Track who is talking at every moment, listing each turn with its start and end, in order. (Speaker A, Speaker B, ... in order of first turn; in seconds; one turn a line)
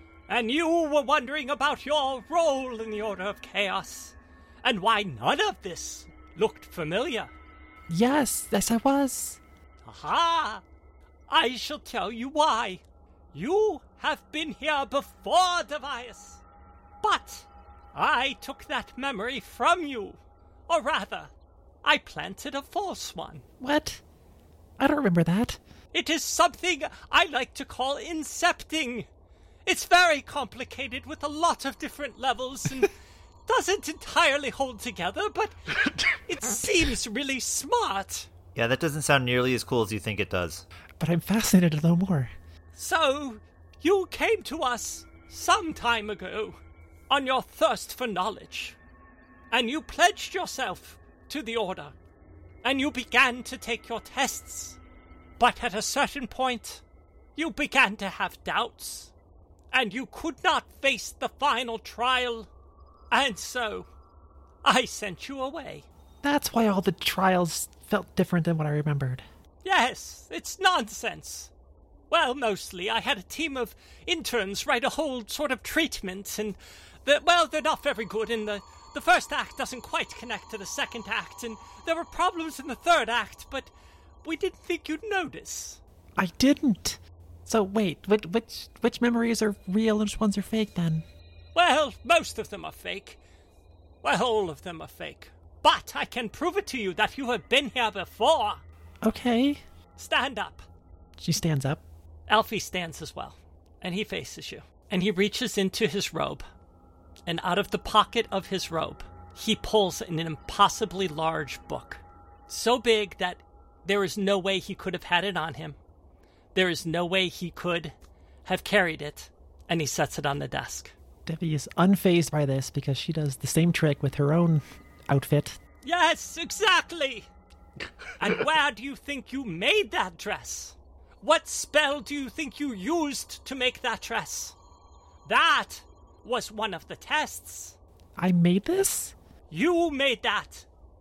Speaker A: 0.3-7.3
Speaker B: 7.9-9.4
Speaker A: 9.8-10.6
Speaker A: 11.3-12.8
Speaker A: 13.3-16.4
Speaker A: 17.0-21.3
Speaker A: 21.8-23.4
Speaker B: 23.6-24.0
Speaker B: 24.8-25.6
Speaker A: 25.9-29.1
Speaker A: 29.6-32.9
Speaker A: 33.5-38.3
Speaker C: 38.5-40.6
Speaker B: 41.0-42.3
Speaker A: 42.8-46.6
Speaker A: 47.1-48.8
Speaker A: 49.5-51.9
Speaker A: 52.6-54.8
Speaker A: 55.4-56.8
Speaker A: 57.4-59.1
Speaker A: 59.7-62.5
Speaker A: 63.1-63.9
Speaker A: 64.6-65.8
Speaker B: 66.2-69.2
Speaker A: 69.6-71.5
Speaker A: 72.1-83.7
Speaker A: 84.2-85.8
Speaker B: 86.2-91.0
Speaker A: 91.5-93.2
Speaker A: 94.0-98.6
Speaker B: 99.0-99.6
Speaker A: 100.0-100.6
Speaker B: 101.2-101.8
Speaker A: 102.3-106.4
Speaker A: 107.3-115.8
Speaker A: 116.5-120.9
Speaker B: 121.2-125.6
Speaker A: 125.8-127.3
Speaker A: 128.2-134.6
Speaker A: 135.2-137.8
Speaker B: 138.2-139.1
Speaker A: 139.5-140.7